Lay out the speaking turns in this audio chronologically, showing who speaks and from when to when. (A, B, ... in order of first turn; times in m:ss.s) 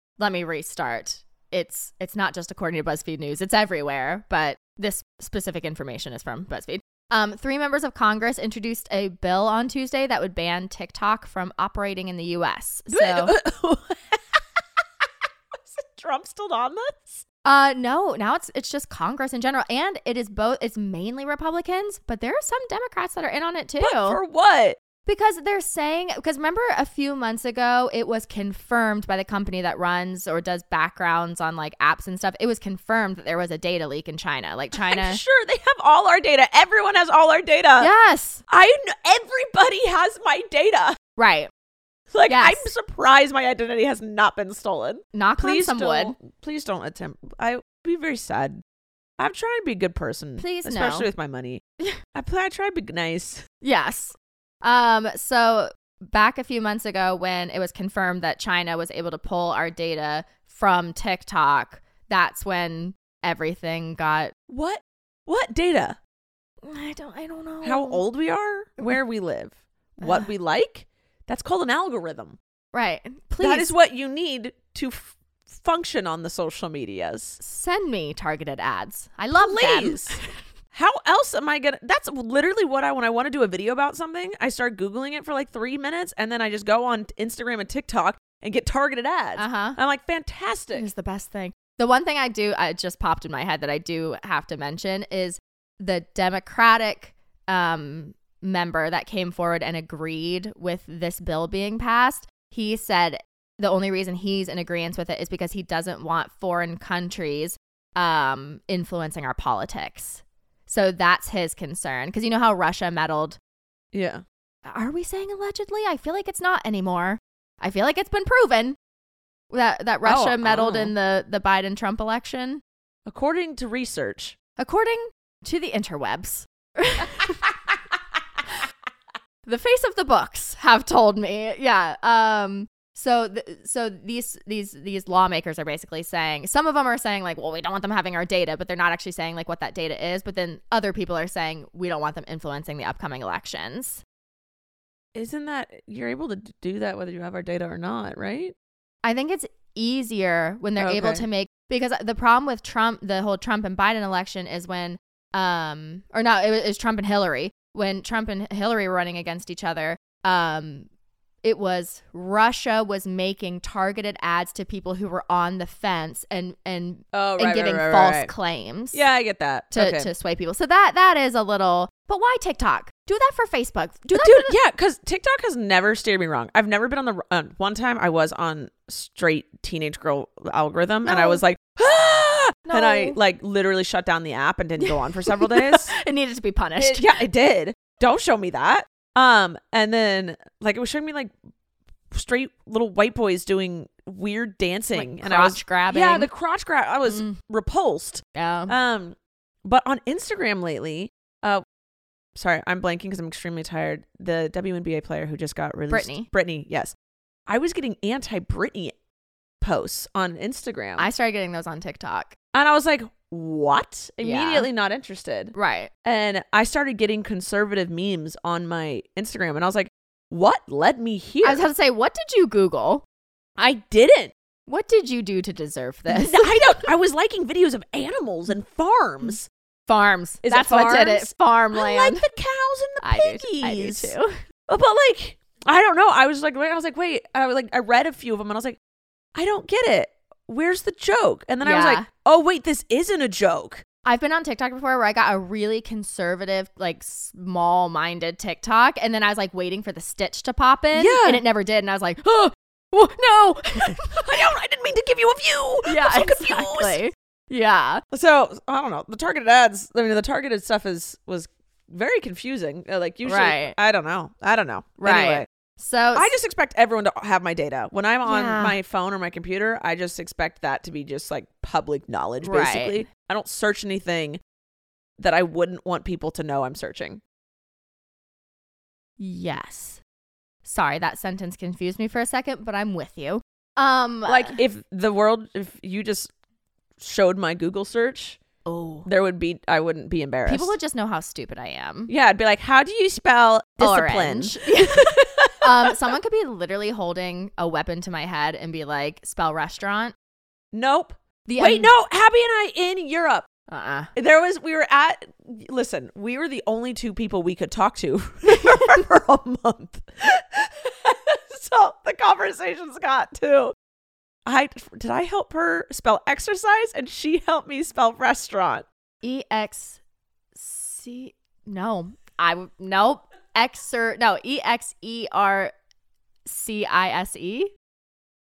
0:00.2-0:13.4 A
0:12.9-0:14.4 B
0:15.6-0:17.2 B
0:17.4-0:24.2 A
0:23.8-0:24.8 B
0:25.1-0:35.2 A
0:34.8-0:37.9 B
0:37.8-0:38.4 A
0:38.5-0:41.0 B
0:41.2-0:41.5 A
0:42.1-0:48.6 B
0:42.3-0:42.7 A
0:45.1-0:46.2 A
0:49.2-0:51.6 B
0:50.4-0:51.1 A
0:52.1-0:53.4 B
0:53.6-1:04.3 A
1:04.5-1:06.0 B
1:06.6-1:08.0 A
1:07.6-1:12.4 B
1:10.0-1:10.3 A
1:12.7-1:13.7 A
1:13.4-1:17.4 B
1:17.4-1:20.3 A
1:19.4-1:20.2 B
1:20.7-1:30.9 B
1:29.4-1:29.8 A
1:30.7-1:53.4 A
1:53.9-1:54.2 B
1:54.7-1:58.8 A
1:59.5-2:02.6 A
2:00.0-2:00.9 B
2:03.1-2:04.4 B
2:04.6-2:07.4 A
2:09.5-2:24.0 A
2:25.2-2:28.5 B
2:29.0-2:40.9 A
2:30.8-2:31.2 B
2:41.4-2:49.0 A
2:47.1-2:48.3 B
2:48.9-2:50.1 B
2:49.7-2:54.5 A
2:54.1-3:05.9 B
3:01.0-3:01.4 A
3:02.7-3:03.2 A
3:04.8-3:07.2 A
3:06.8-3:11.3 B
3:12.1-3:21.6 B
3:14.9-3:16.3 A
3:17.1-3:17.4 A
3:18.4-3:18.7 A
3:22.4-3:26.9 B
3:25.9-3:26.3 A
3:27.5-3:28.9 B
3:29.6-3:31.1 B
3:31.0-3:32.3 A
3:32.5-3:41.6 B
3:34.2-3:34.7 A
3:35.5-3:35.9 A
3:41.4-3:43.0 A
3:43.6-3:44.3 B
3:44.7-3:46.9 A
3:46.1-3:49.5 B
3:49.9-3:52.2 A
3:50.4-3:54.1 B
3:53.0-3:54.4 A
3:54.7-3:58.8 B
3:59.4-4:03.8 B
4:01.6-4:02.1 A
4:04.0-4:14.4 A
4:11.0-4:11.4 B
4:14.1-4:17.0 B
4:15.8-4:18.0 A
4:18.1-4:25.5 B
4:23.3-4:23.8 A
4:25.0-4:26.3 A
4:26.2-4:34.4 B
4:28.2-4:28.8 A
4:32.4-4:33.0 A
4:35.2-4:37.2 B
4:39.2-4:40.0 A
4:40.6-4:44.6 A
4:44.3-4:46.3 B
4:47.0-4:48.4 B
4:48.6-4:49.1 A
4:49.0-4:50.7 B
4:50.5-4:52.1 A
4:52.1-4:56.0 B
4:53.8-5:00.1 A
5:00.7-5:03.5 B
5:01.5-5:01.9 A
5:03.7-5:04.1 A
5:04.2-5:13.7 B
5:14.5-5:18.8 B
5:19.2-5:20.0 A
5:20.6-5:25.7 A
5:26.5-5:27.7 A